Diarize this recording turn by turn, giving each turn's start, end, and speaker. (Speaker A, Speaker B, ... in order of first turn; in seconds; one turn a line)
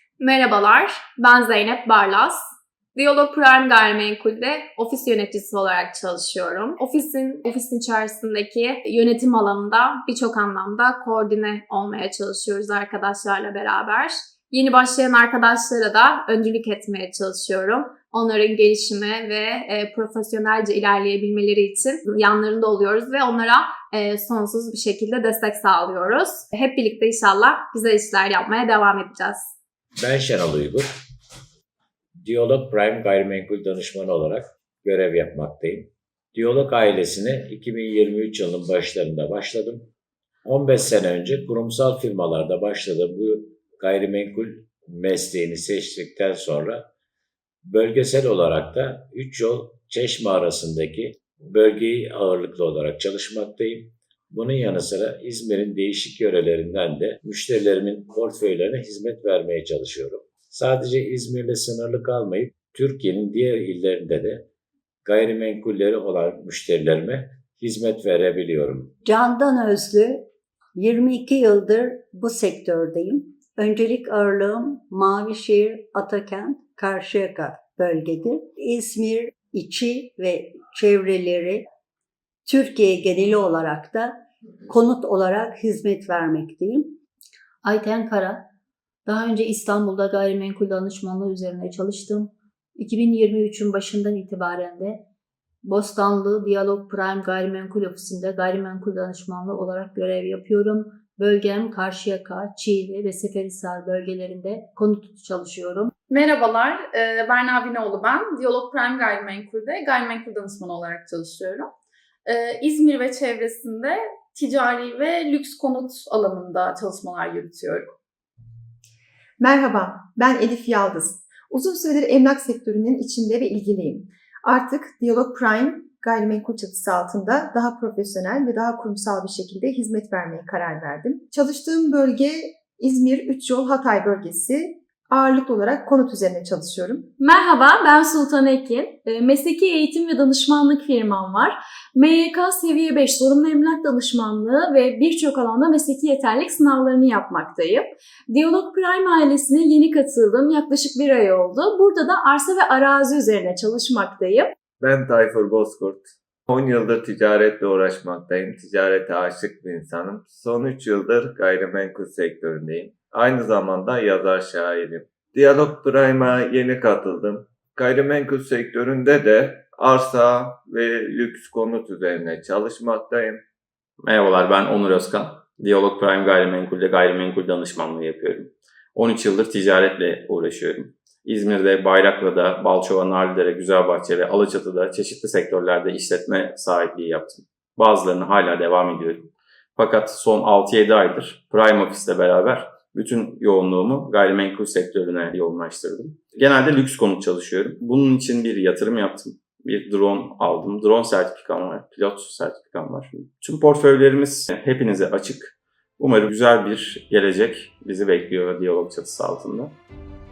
Speaker A: 0.2-2.4
Speaker A: 3.0-29.5
Speaker B: 30.0-30.9
Speaker B: 32.2-39.9
Speaker B: 40.4-46.9
Speaker B: 47.6-64.5
Speaker B: 65.0-68.9
Speaker C: 69.0-81.7
Speaker C: 82.5-87.0
Speaker D: 87.6-88.4
Speaker D: 89.1-95.0
Speaker D: 95.6-105.9
Speaker E: 106.1-111.7
Speaker E: 112.2-117.9
Speaker F: 119.4-137.1
Speaker G: 137.2-154.5
Speaker H: 154.8-173.4
Speaker I: 174.0-209.8